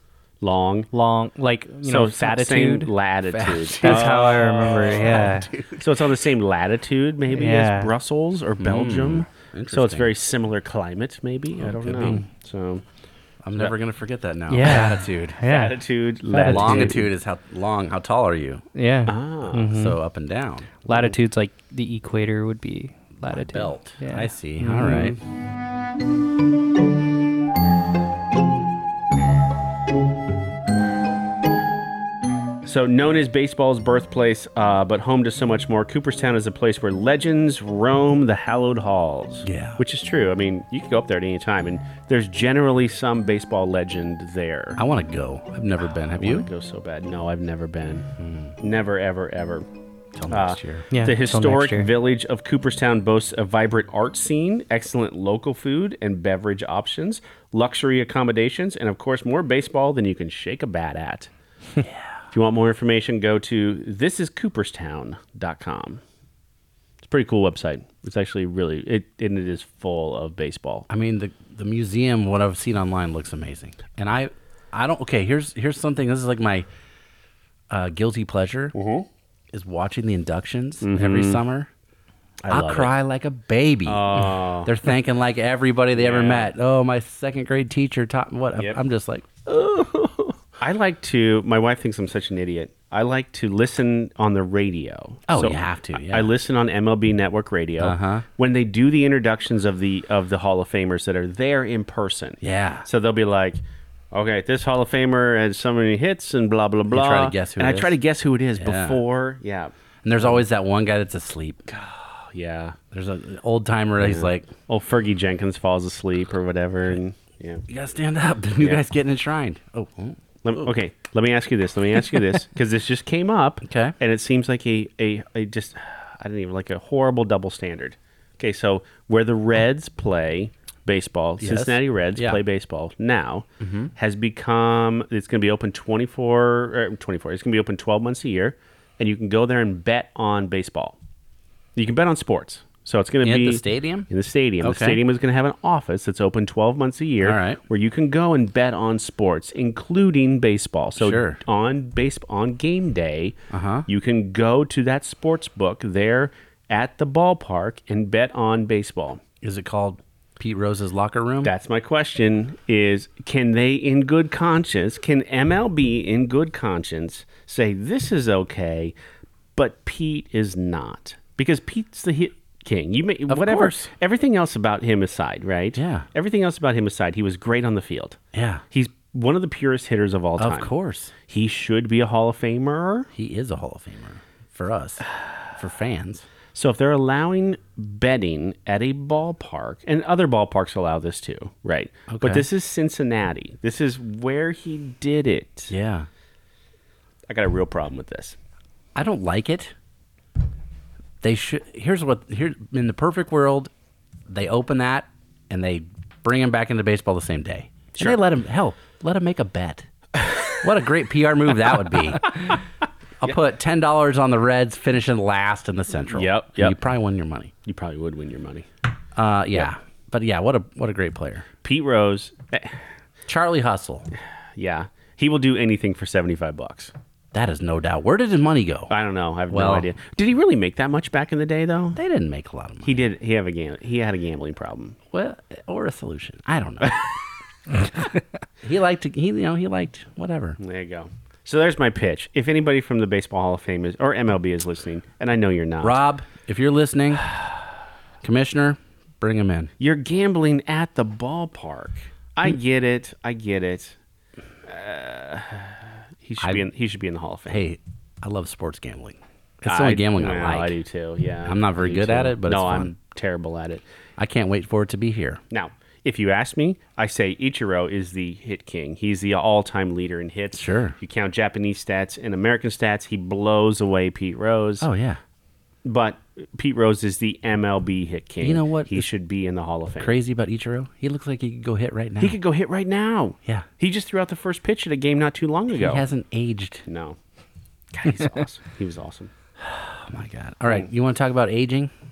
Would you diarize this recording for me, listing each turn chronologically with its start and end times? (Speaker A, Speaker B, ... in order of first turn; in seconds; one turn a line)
Speaker A: 0.4-0.9
Speaker B: 0.9-2.9
Speaker A: 1.9-5.0
Speaker C: 3.3-6.1
Speaker B: 3.8-5.5
Speaker A: 5.8-12.8
Speaker B: 7.3-7.9
Speaker C: 8.6-10.1
Speaker C: 11.6-12.2
Speaker C: 13.4-15.4
Speaker B: 14.5-15.8
Speaker A: 15.4-17.1
Speaker B: 16.3-17.0
Speaker C: 16.4-18.6
Speaker B: 18.8-20.0
Speaker A: 19.1-19.7
Speaker C: 19.6-20.7
Speaker B: 20.9-25.1
Speaker C: 23.3-25.2
Speaker A: 24.8-25.2
Speaker A: 32.6-44.8
Speaker C: 39.5-39.8
Speaker C: 44.8-46.5
Speaker A: 46.0-48.1
Speaker C: 48.2-48.6
Speaker A: 48.6-49.6
Speaker C: 50.2-50.9
Speaker A: 50.3-61.3
Speaker B: 50.9-51.9
Speaker C: 61.8-62.1
Speaker A: 62.3-66.0
Speaker A: 67.0-70.9
Speaker C: 70.9-76.7
Speaker C: 77.7-78.8
Speaker A: 78.7-79.1
Speaker C: 79.5-81.7
Speaker A: 80.8-81.4
Speaker A: 82.4-82.9
Speaker C: 82.5-89.3
Speaker A: 83.9-84.7
Speaker A: 86.0-86.5
Speaker A: 89.5-103.6
Speaker C: 95.3-96.3
Speaker C: 97.8-98.2
Speaker C: 102.4-102.9
Speaker A: 104.1-110.4
Speaker C: 106.9-108.0
Speaker C: 108.6-109.0
Speaker C: 110.0-111.6
Speaker A: 111.7-112.8
Speaker C: 112.9-114.5
Speaker A: 114.0-117.6
Speaker C: 117.7-120.2
Speaker A: 120.4-141.0
Speaker C: 123.6-124.0
Speaker C: 131.4-132.4
Speaker C: 133.6-133.9
Speaker A: 141.8-153.4
Speaker C: 143.2-144.1
Speaker C: 144.6-145.0
Speaker C: 147.2-147.6
Speaker C: 151.0-151.4
Speaker C: 153.5-153.9
Speaker A: 153.9-159.2
Speaker C: 159.4-161.5
Speaker A: 161.4-168.9
Speaker A: 169.6-178.2
Speaker C: 173.3-173.9
Speaker C: 175.8-176.1
Speaker C: 178.3-178.6
Speaker A: 178.7-180.7
Speaker C: 180.4-181.1
Speaker A: 181.3-183.1
Speaker C: 183.1-185.0
Speaker C: 185.6-186.3
Speaker A: 186.5-195.7
Speaker C: 192.1-192.5
Speaker C: 195.7-196.1
Speaker A: 197.3-198.4
Speaker C: 198.9-199.8
Speaker C: 201.2-203.7
Speaker C: 204.3-209.9
Speaker C: 210.6-212.6
Speaker C: 213.2-217.5
Speaker A: 216.1-216.8
Speaker A: 217.7-218.7
Speaker C: 219.2-221.5
Speaker A: 221.6-222.8
Speaker C: 223.3-224.1
Speaker A: 224.6-226.9
Speaker C: 227.3-228.9
Speaker A: 228.9-232.0
Speaker C: 229.5-229.9
Speaker C: 231.9-233.0
Speaker A: 232.8-235.0
Speaker C: 235.1-237.0
Speaker C: 238.6-240.6
Speaker A: 240.6-246.0
Speaker C: 245.8-247.3
Speaker C: 248.2-249.7
Speaker A: 249.8-254.0
Speaker A: 254.7-257.6
Speaker C: 256.4-256.7
Speaker C: 257.5-260.8
Speaker A: 259.7-263.8
Speaker C: 261.4-262.9
Speaker C: 264.2-265.4
Speaker A: 265.5-274.9
Speaker C: 270.6-271.0
Speaker C: 274.8-275.2
Speaker A: 275.9-280.1
Speaker C: 278.4-279.1
Speaker C: 280.0-282.4
Speaker A: 282.2-286.0
Speaker C: 285.7-286.8
Speaker A: 286.9-287.2
Speaker A: 287.9-289.3
Speaker C: 289.6-291.9